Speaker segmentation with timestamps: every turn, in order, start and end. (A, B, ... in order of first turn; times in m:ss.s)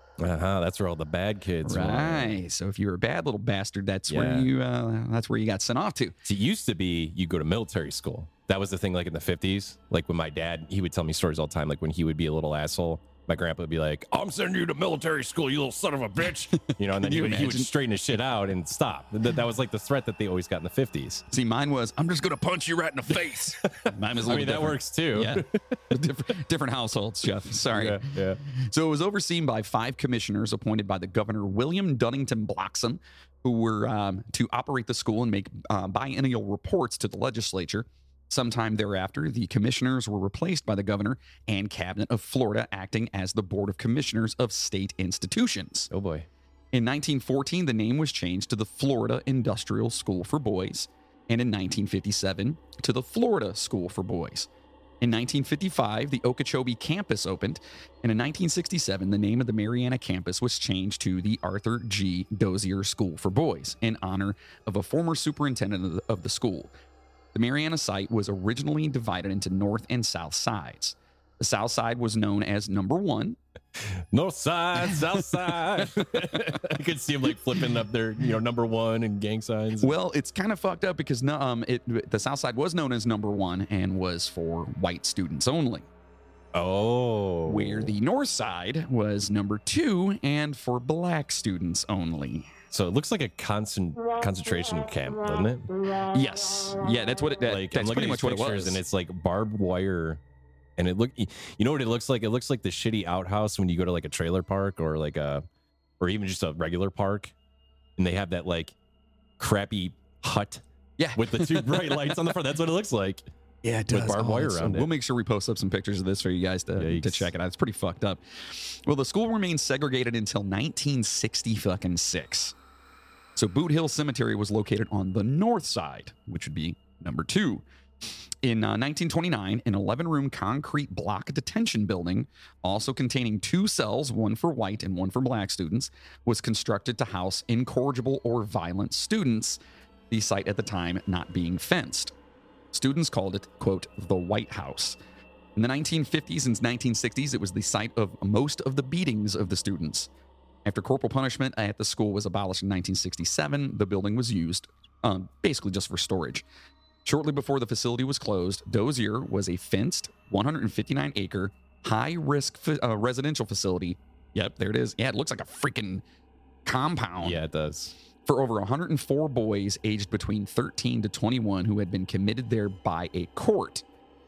0:00.2-0:02.4 A
0:01.6-0:06.2 B
0:04.1-0:04.5 A
0:06.2-0:21.2 A
0:16.6-0:17.7 B
0:21.3-0:45.9 B
0:23.6-0:25.7 A
0:27.7-0:28.4 A
0:45.9-0:46.3 A
0:46.7-0:54.5 B
0:55.0-1:06.7 B
1:07.3-1:13.4 B
1:13.8-1:19.9 A
1:15.8-1:16.6 B
1:19.8-1:25.9 B
1:26.5-1:27.9 A
1:27.4-1:32.5 B
1:32.7-1:35.7 A
1:36.1-1:38.8 B
1:37.4-1:40.2 A
1:40.8-1:45.4 A
1:46.0-1:47.3 A
1:48.0-1:48.7 A
1:49.4-1:50.6 A
1:51.0-1:52.3 B
1:51.1-1:53.2 A
1:53.6-2:02.5 B
1:53.9-1:54.9 A
1:56.8-1:57.3 A
2:03.4-2:07.6 B
2:08.4-2:19.6 B
2:20.1-2:22.1 B
2:22.7-2:25.0 B
2:25.6-2:30.1 B
2:30.6-2:36.4 B
2:37.0-2:46.0 B
2:46.6-2:47.4 B
2:47.2-2:47.9 A
2:48.2-2:53.8 B